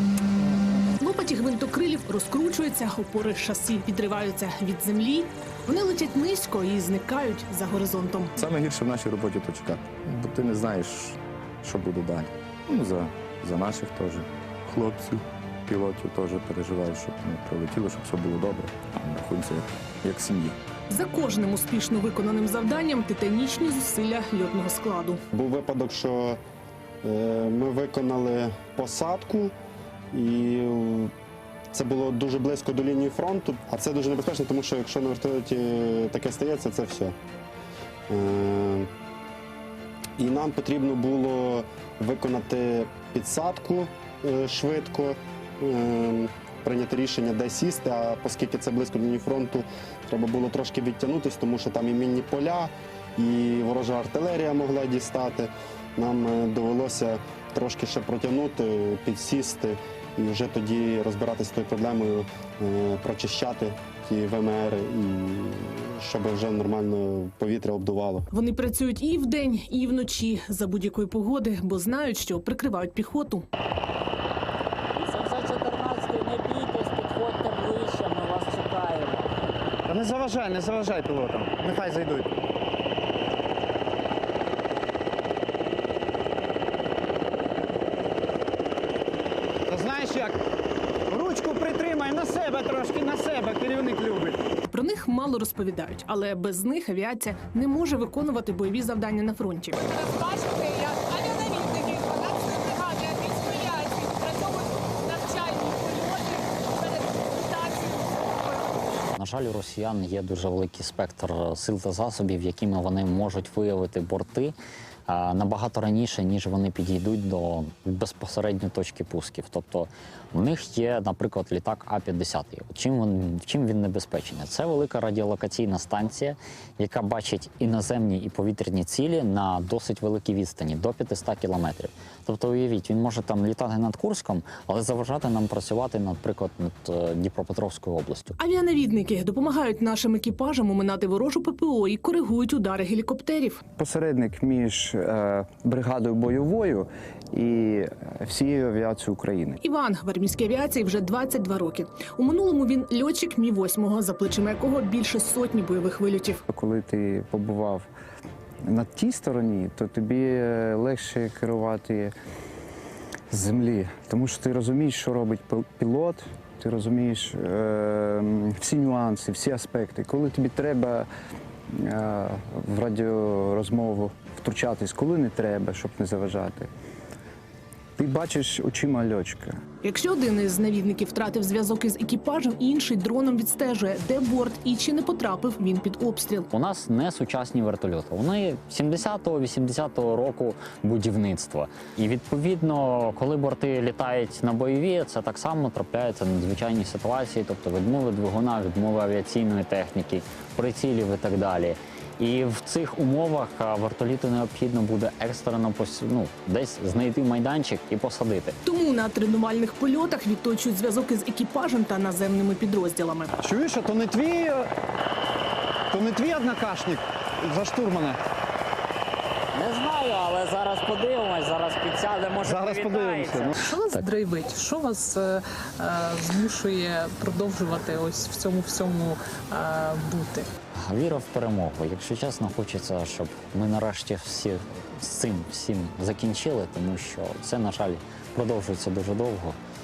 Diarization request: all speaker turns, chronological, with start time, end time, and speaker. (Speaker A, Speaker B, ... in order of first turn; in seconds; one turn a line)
Speaker A: 1.0-8.3
Speaker B: 8.4-20.6
Speaker A: 20.9-25.2
Speaker C: 25.3-26.4
Speaker C: 27.0-29.5
Speaker C: 30.1-31.1
Speaker C: 31.7-37.1
Speaker C: 38.1-38.9
Speaker C: 40.2-68.2
Speaker A: 68.3-73.5
Speaker D: 75.0-79.3
Speaker E: 79.9-82.3
Speaker E: 89.7-90.4
Speaker E: 91.1-94.4
Speaker A: 94.7-108.7
Speaker D: 109.1-114.5
Speaker D: 115.1-138.3
Speaker A: 138.4-143.6
Speaker F: 143.8-149.6
Speaker A: 149.6-156.4
Speaker F: 156.5-157.9
Speaker F: 158.6-162.1
Speaker F: 163.3-171.1
Speaker F: 171.7-176.7
Speaker F: 178.0-179.6
Speaker A: 179.8-186.5
Speaker D: 186.5-208.6
Speaker A: 208.6-213.4
Speaker E: 213.4-214.7
Speaker E: 215.9-218.2
Speaker D: 219.5-224.0
Speaker E: 222.5-223.3
Speaker G: 223.6-230.5
Speaker D: 230.8-239.6